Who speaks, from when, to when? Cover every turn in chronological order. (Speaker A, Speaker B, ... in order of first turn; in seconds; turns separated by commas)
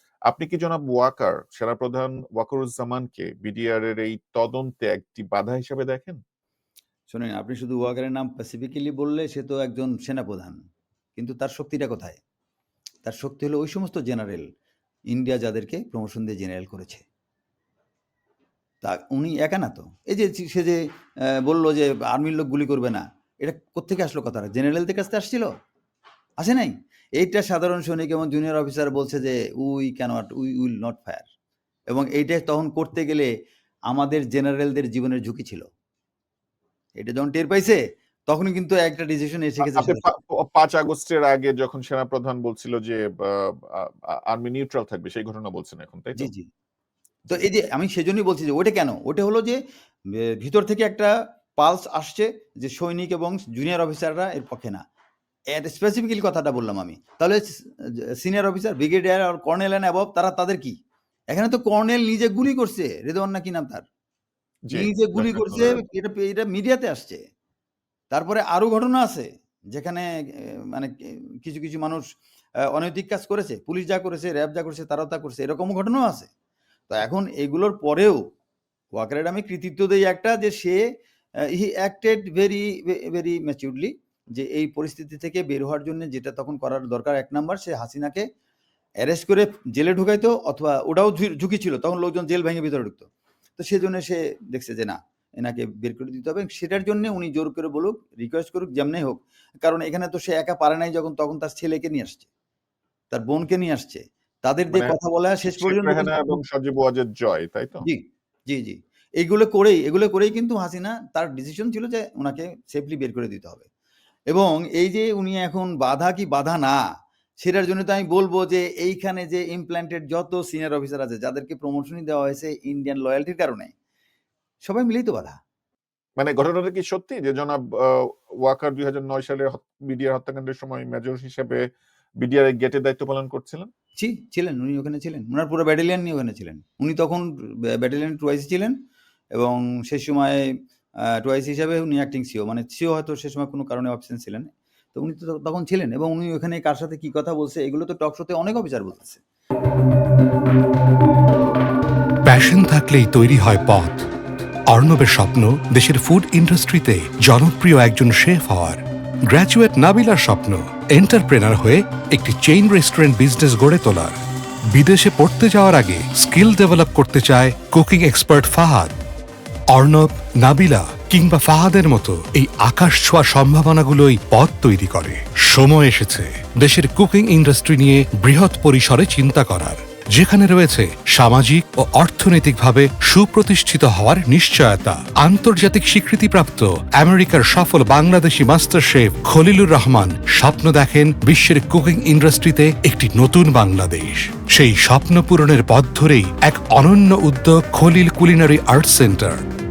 Speaker A: 0.3-6.2, Speaker B: 7.1-10.6, Speaker B: 11.2-12.2, Speaker B: 13.0-14.5, Speaker B: 15.1-17.1, Speaker B: 18.8-20.8, Speaker B: 21.4-25.5, Speaker B: 26.4-31.3, Speaker B: 31.9-33.3, Speaker B: 33.9-35.7, Speaker B: 37.0-40.1, Speaker A: 39.6-46.3, Speaker B: 46.2-46.5, Speaker B: 47.3-49.6, Speaker B: 50.2-54.8, Speaker B: 55.5-60.8, Speaker B: 61.3-63.9, Speaker A: 64.7-65.8, Speaker B: 64.7-67.2, Speaker B: 68.1-72.0, Speaker B: 72.7-76.3, Speaker B: 76.9-78.2, Speaker B: 78.9-80.8, Speaker B: 81.5-88.3, Speaker B: 89.0-102.3, Speaker B: 103.1-106.4, Speaker A: 104.7-107.9, Speaker B: 107.8-113.7, Speaker B: 114.3-116.8, Speaker B: 117.4-123.7, Speaker B: 124.6-125.4, Speaker A: 126.2-133.7, Speaker B: 134.0-138.8, Speaker B: 139.3-140.5, Speaker B: 141.1-149.2, Speaker C: 152.2-154.1, Speaker C: 154.7-164.2, Speaker C: 164.7-168.9, Speaker C: 169.7-199.5